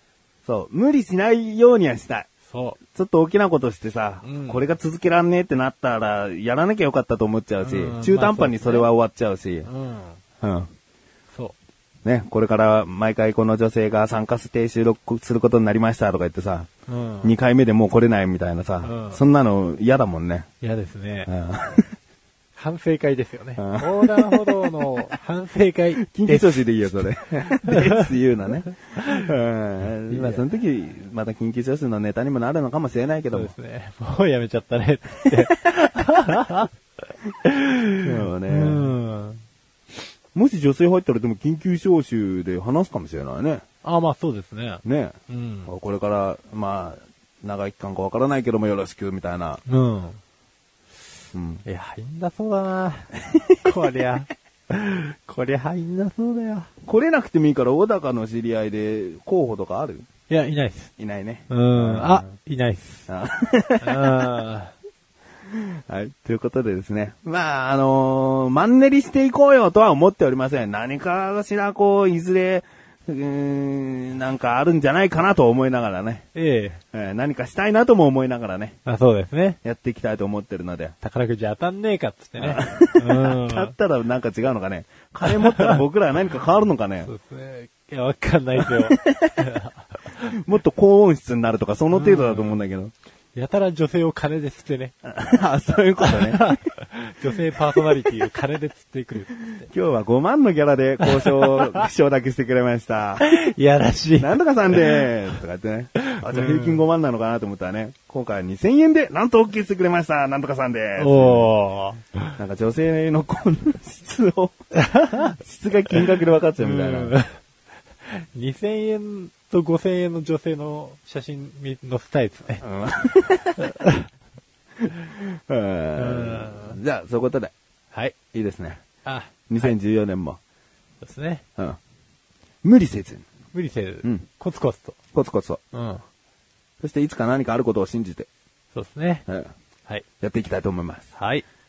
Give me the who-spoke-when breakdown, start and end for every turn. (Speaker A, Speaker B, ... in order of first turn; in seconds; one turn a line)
Speaker A: 0.5-2.3
Speaker B: 2.5-2.8
Speaker A: 2.9-9.7
Speaker B: 4.2-4.6
Speaker B: 7.6-8.9
Speaker B: 9.6-10.2
Speaker A: 10.4-10.7
Speaker A: 12.0-16.7
Speaker B: 16.9-17.3
Speaker A: 17.2-20.5
Speaker B: 18.8-19.2
Speaker B: 20.6-21.3
Speaker A: 21.3-22.0
Speaker B: 22.5-27.0
Speaker A: 23.6-25.0
Speaker A: 26.1-33.5
Speaker B: 27.7-28.0
Speaker B: 30.1-30.4
Speaker B: 33.3-36.7
Speaker B: 37.4-39.4
Speaker A: 38.0-38.9
Speaker A: 40.3-43.6
Speaker B: 43.8-45.7
Speaker A: 44.8-45.1
Speaker A: 45.7-49.6
Speaker B: 49.6-50.2
Speaker A: 51.3-51.6
Speaker B: 51.6-53.1
Speaker B: 53.6-56.7
Speaker A: 56.8-60.0
Speaker B: 60.3-60.9
Speaker A: 61.0-62.3
Speaker B: 61.5-63.1
Speaker A: 63.1-64.2
Speaker B: 63.8-64.7
Speaker A: 65.5-76.2
Speaker B: 76.3-76.8
Speaker A: 76.9-78.8
Speaker B: 78.8-79.6
Speaker A: 79.6-80.9
Speaker B: 81.0-83.7
Speaker A: 82.4-87.1
Speaker B: 85.3-85.8
Speaker B: 87.0-90.0
Speaker A: 88.6-89.4
Speaker A: 90.5-92.9
Speaker B: 91.9-92.6
Speaker B: 93.3-95.0
Speaker A: 95.1-96.4
Speaker B: 96.0-99.7
Speaker A: 99.7-103.5
Speaker B: 101.1-101.8
Speaker B: 103.2-105.1
Speaker A: 104.2-111.5
Speaker B: 106.1-106.8
Speaker B: 111.0-112.3
Speaker A: 112.4-114.5
Speaker B: 114.8-115.3
Speaker A: 115.2-117.2
Speaker B: 116.6-117.4
Speaker B: 118.0-122.6
Speaker A: 122.6-123.6
Speaker B: 123.6-124.0
Speaker A: 125.0-127.5
Speaker B: 126.0-126.8
Speaker A: 128.3-128.8
Speaker B: 129.0-129.7
Speaker A: 129.5-130.4
Speaker B: 131.0-131.4
Speaker A: 132.6-133.2
Speaker B: 133.5-134.9
Speaker A: 135.1-135.6
Speaker B: 135.7-136.0
Speaker A: 136.8-138.3
Speaker B: 138.7-139.2
Speaker A: 140.2-141.1
Speaker B: 141.2-141.4